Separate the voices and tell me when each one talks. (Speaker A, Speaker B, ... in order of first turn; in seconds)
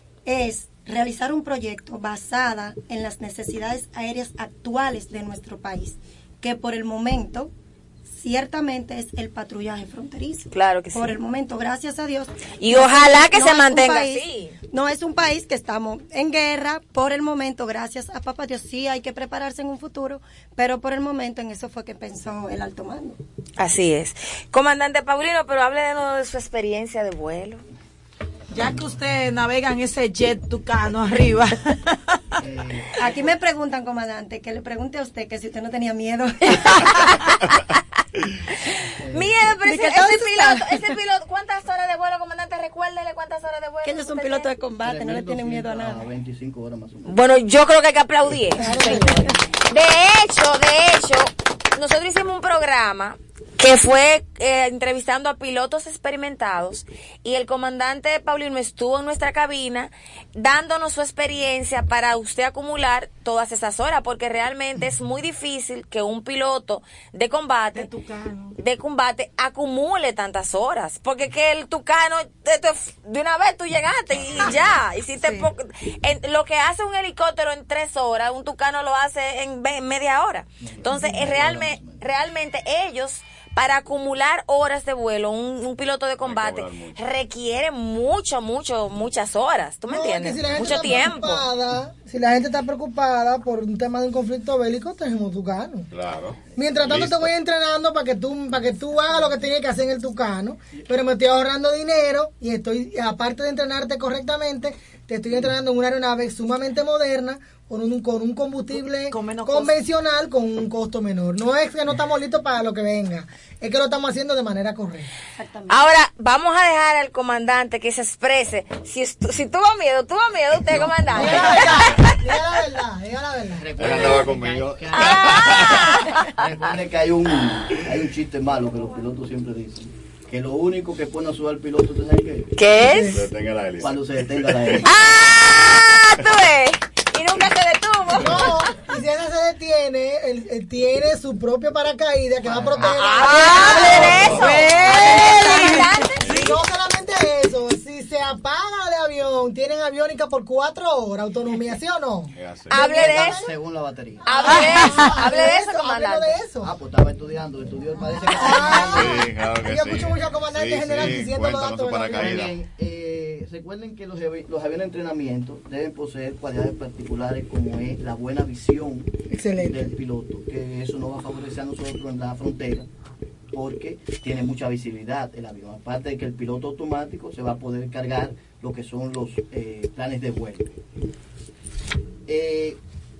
Speaker A: 0.2-7.5, 8.0-23.2, 32.9-37.2, 39.6-40.8, 43.8-46.1, 115.3-115.8
Speaker B: 10.5-11.2, 12.6-14.6, 23.6-27.6, 36.7-37.1, 39.1-44.5, 47.0-67.9, 68.5-91.5, 115.7-122.2, 124.9-126.3, 132.5-133.1, 134.8-138.7, 142.9-146.3, 152.7-153.4, 154.2-156.4
Speaker C: 28.5-32.0, 67.7-68.5, 75.2-75.5, 109.1-109.8, 143.2-146.0, 154.4-155.2
Speaker D: 32.4-33.1, 39.0-39.4, 44.8-47.2, 48.7-49.2, 80.6-82.0, 120.6-121.8, 123.5-132.5, 133.8-134.9, 142.4-144.7, 152.9-154.2, 156.6-159.2, 160.9-161.3, 162.1-172.9, 173.5-180.7, 182.3-182.8
Speaker E: 48.5-49.3, 89.9-95.9, 96.5-115.1, 121.1-123.8, 132.7-133.3, 138.2-144.5, 146.3-153.5, 154.2-156.7, 158.2-162.3, 169.3-169.9
Speaker F: 74.1-74.8, 86.2-87.0, 95.9-97.3, 123.8-126.2, 132.9-134.8, 146.2-146.5, 152.3-153.1, 158.7-162.6